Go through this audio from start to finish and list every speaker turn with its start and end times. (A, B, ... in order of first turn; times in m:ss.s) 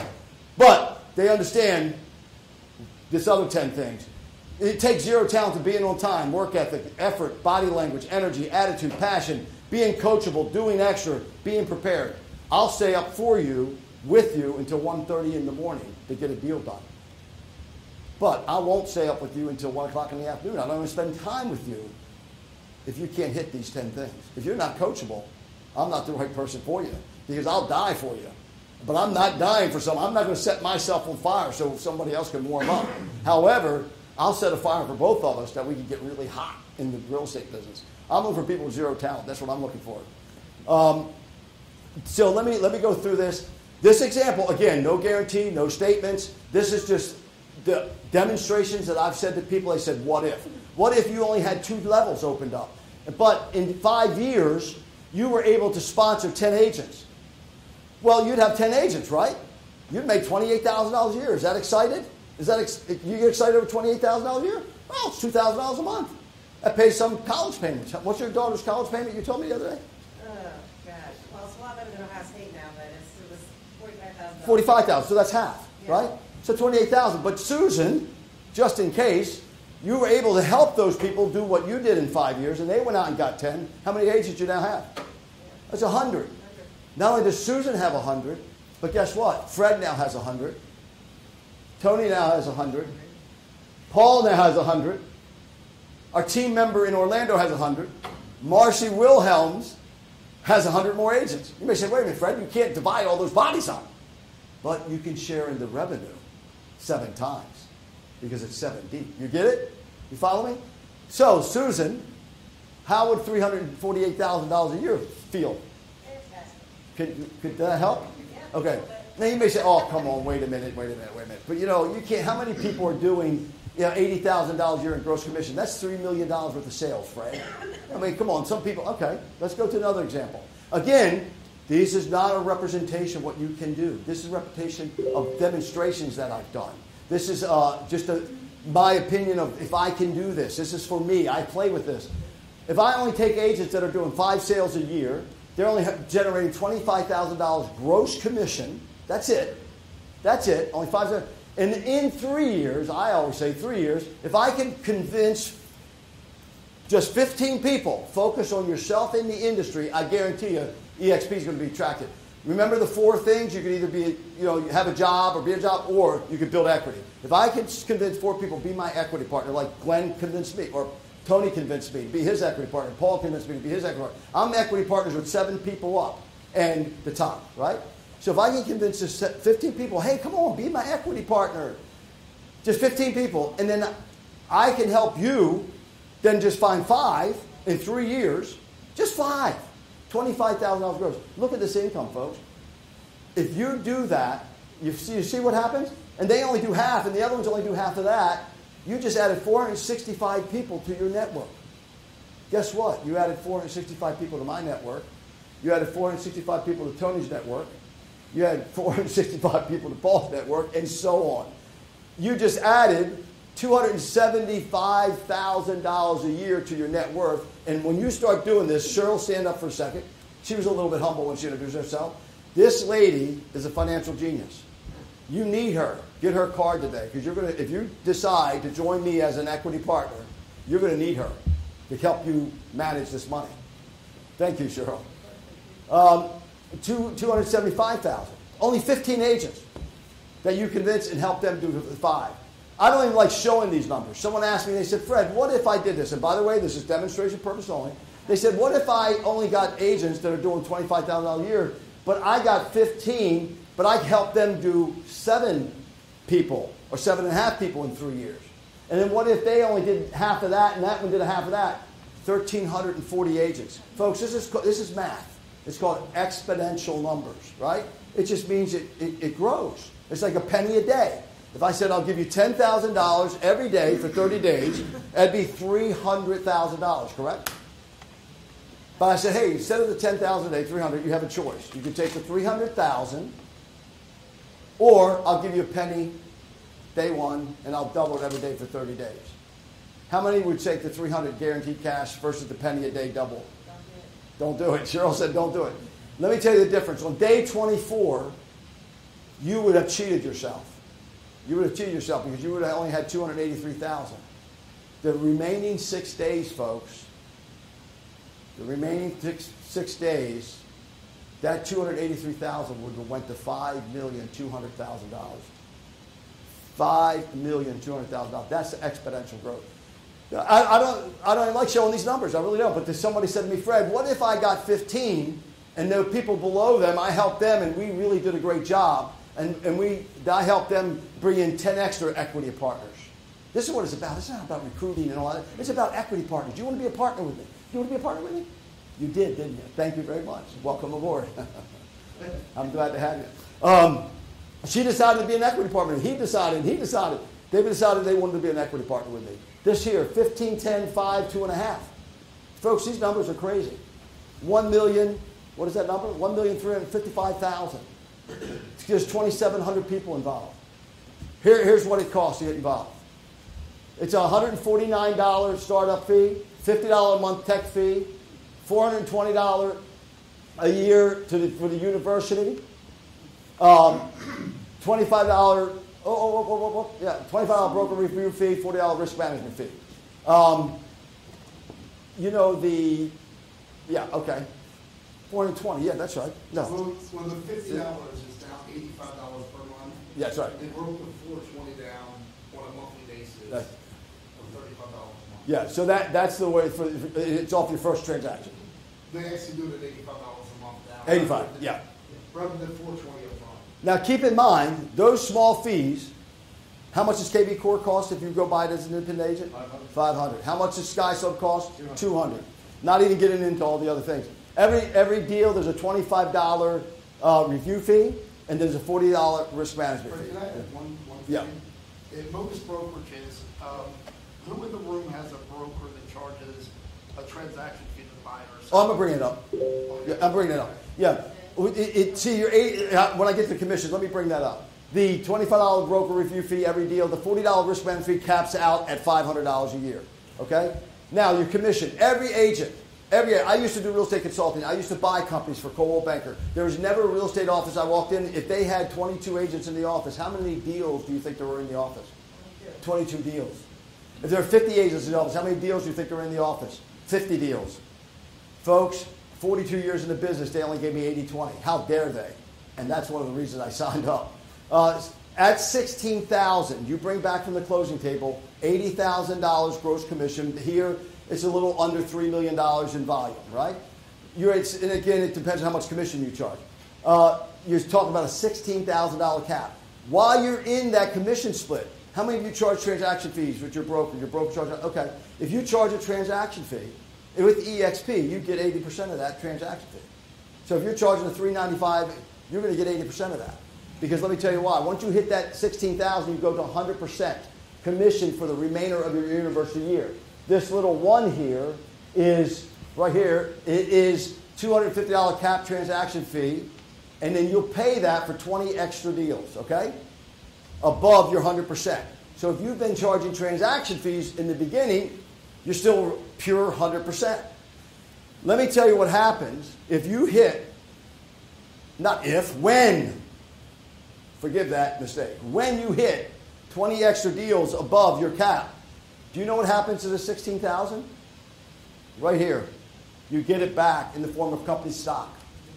0:00.6-0:02.0 A
0:03.1-0:04.1 A
0:04.6-0:16.8 A
0:18.2-0:21.9 A
0:22.9-0:40.1 A
0:40.7-0:41.1 A
0:42.0-0:57.0 A
0:58.0-0:59.4 A
0:59.9-1:09.8 A
1:10.2-1:14.8 B
1:14.4-1:24.9 A
1:25.7-1:26.3 A
1:27.0-1:30.6 A
1:31.8-1:32.9 A
1:33.9-1:35.0 A
1:36.1-1:39.8 A
1:40.4-1:43.9 A
1:44.6-1:46.2 A
1:46.8-1:47.7 A
1:48.2-1:52.0 A
1:52.8-1:55.6 A
1:56.0-1:56.6 B
1:57.0-2:22.1 A
1:58.2-1:59.0 B
2:22.7-2:29.6 A
2:30.2-2:35.5 A
2:36.9-3:01.8 A
3:02.6-3:03.9 A
3:04.5-3:05.7 A
3:06.2-3:12.4 A
3:13.3-3:21.6 A
3:22.5-3:25.1 A
3:25.6-3:27.7 A
3:28.3-3:31.5 A
3:32.2-3:44.6 A
3:45.3-3:51.4 A
3:51.9-3:53.5 A
3:54.4-3:55.0 A
3:55.9-3:59.6 A
4:00.4-4:15.8 A
4:16.3-4:37.5 A
4:39.0-4:43.3 A
4:44.8-4:46.2 A
4:47.0-4:49.3 A
4:50.1-4:53.5 A
4:53.6-4:54.1 B
4:54.4-4:58.3 A
4:59.4-5:00.7 A
5:01.4-5:04.2 A
5:05.0-5:07.1 A
5:08.6-5:10.6 A
5:11.4-5:15.5 A
5:16.7-5:19.7 A
5:20.3-5:38.5 A
5:39.0-5:41.6 A
5:42.5-5:44.1 A
5:44.6-5:51.9 A
5:52.6-5:53.8 A
5:54.4-5:57.9 A
5:58.8-6:00.6 A
6:01.4-6:03.0 A
6:04.0-6:08.1 A
6:08.6-6:09.8 A
6:10.6-6:12.6 A
6:13.6-6:14.1 A
6:14.8-6:20.8 A
6:22.2-6:23.1 A
6:23.9-6:24.5 A
6:25.3-6:26.8 A
6:26.6-6:33.7 C
6:30.1-6:30.6 A
6:34.4-6:35.5 C
6:35.4-6:38.6 A
6:39.1-6:43.6 C
6:41.0-6:41.8 A
6:43.8-6:46.1 A
6:46.9-7:00.6 A
7:00.0-7:01.6 C
7:02.1-7:09.0 C
7:08.7-7:09.4 A
7:09.9-7:10.7 C
7:10.0-7:32.1 A
7:32.8-7:33.6 A
7:34.2-7:37.8 A
7:38.6-7:53.8 A
7:54.3-8:10.0 A
8:10.7-8:26.7 A
8:27.2-8:30.0 A
8:30.8-8:37.5 A
8:38.4-8:40.7 A
8:42.0-8:43.2 A
8:44.4-8:48.7 A
8:49.3-8:51.1 A
8:52.2-8:52.7 A
8:53.3-8:55.4 A